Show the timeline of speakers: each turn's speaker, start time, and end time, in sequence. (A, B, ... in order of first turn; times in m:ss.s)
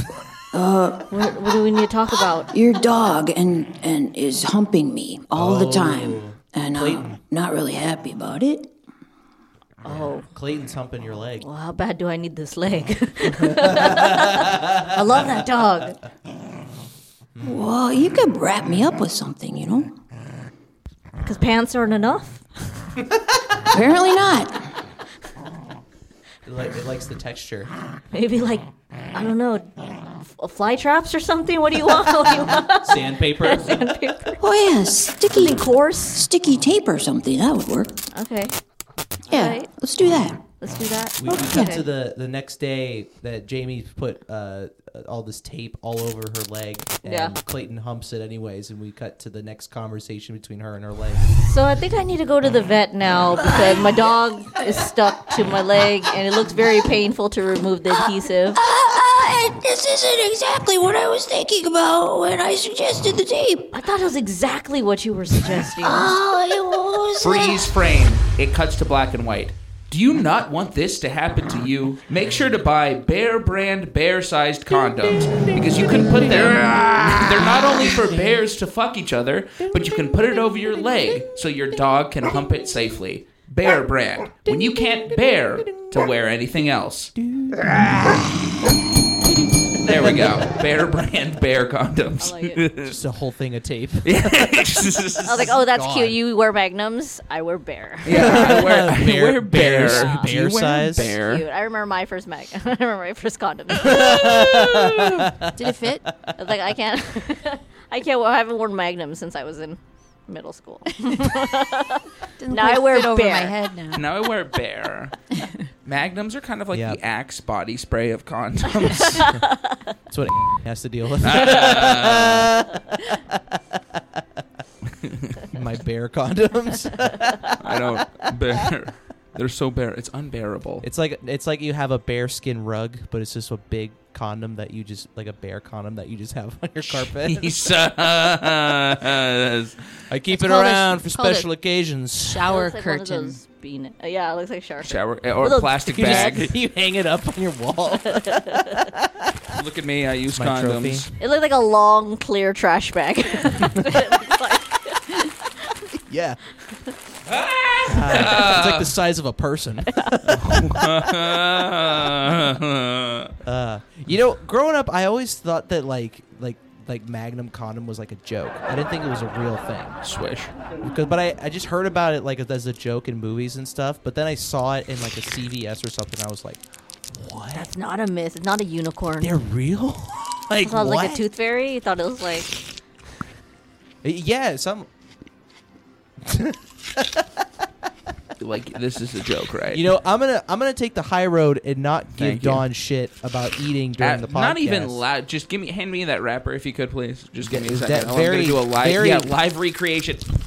0:00.5-0:01.1 A
0:01.1-0:02.5 B
0:02.5-0:08.7 A
0:05.3-0:07.2 C
0:09.8-0:10.3 B
0:09.9-0:11.5 C
0:11.4-0:16.0 B
0:13.4-0:15.0 C
0:17.4-0:17.7 C
0:17.4-0:19.9 A
0:21.2-0:22.4 B
0:23.0-0:23.4 C
0:23.7-0:24.7 A
0:26.5-0:27.7 C
0:28.1-0:34.4 B
0:32.8-0:34.0 C
0:34.4-0:38.0 A
0:35.3-0:36.2 B
0:38.2-0:38.6 B
0:39.3-0:39.7 B
0:39.3-0:40.4 A
0:40.6-0:41.9 B
0:41.2-0:51.3 C
0:41.4-0:41.7 A
0:47.0-0:47.3 B
0:51.4-0:58.6 B
0:58.0-1:03.7 A
1:03.7-1:06.2 B
1:05.8-1:07.7 A
1:07.2-1:27.1 D
1:12.2-1:12.5 C
1:15.4-1:18.4 C
1:19.6-1:21.2 C
1:24.5-1:25.8 C
1:27.2-1:28.2 C
1:29.8-1:33.0 D
1:32.2-1:32.6 B
1:32.8-1:34.7 C
1:34.0-1:35.6 D
1:35.2-1:36.2 C
1:35.3-1:38.6 B
1:38.0-1:41.4 D
1:38.1-1:41.2 C
1:39.8-1:40.3 B
1:41.2-1:44.9 B
1:43.8-1:45.5 C
1:45.6-1:46.2 E
1:46.3-1:53.6 B
1:52.4-1:54.1 E
1:53.9-1:55.1 D
1:55.8-1:59.3 D
1:56.7-1:57.0 C
1:59.0-1:59.8 B
2:00.1-2:04.2 C
2:01.2-2:02.5 D
2:04.8-2:05.5 D
2:05.5-2:08.7 C
2:07.6-2:10.9 D
2:10.8-2:17.6 C
2:16.8-2:19.8 D
2:20.1-2:22.5 C
2:20.3-2:21.5 E
2:22.2-2:23.4 E
2:22.5-2:26.4 B
2:24.8-2:26.5 D
2:25.9-2:29.4 C
2:28.1-2:28.8 B
2:29.5-2:31.1 D
2:30.3-2:31.0 C
2:31.2-2:35.8 B
2:36.1-2:36.4 C
2:37.3-2:38.9 D
2:37.9-2:40.8 C
2:40.2-2:43.4 D
2:43.4-2:50.0 C
2:50.0-2:50.5 D
2:50.8-2:57.7 C
2:57.5-2:59.4 B
2:59.2-3:01.2 C
3:00.6-3:02.6 B
3:04.0-3:04.9 C
3:06.2-3:07.5 C
3:08.4-3:09.8 D
3:09.7-3:15.0 C
3:12.2-3:12.7 D
3:14.0-3:20.3 D
3:17.4-3:19.4 C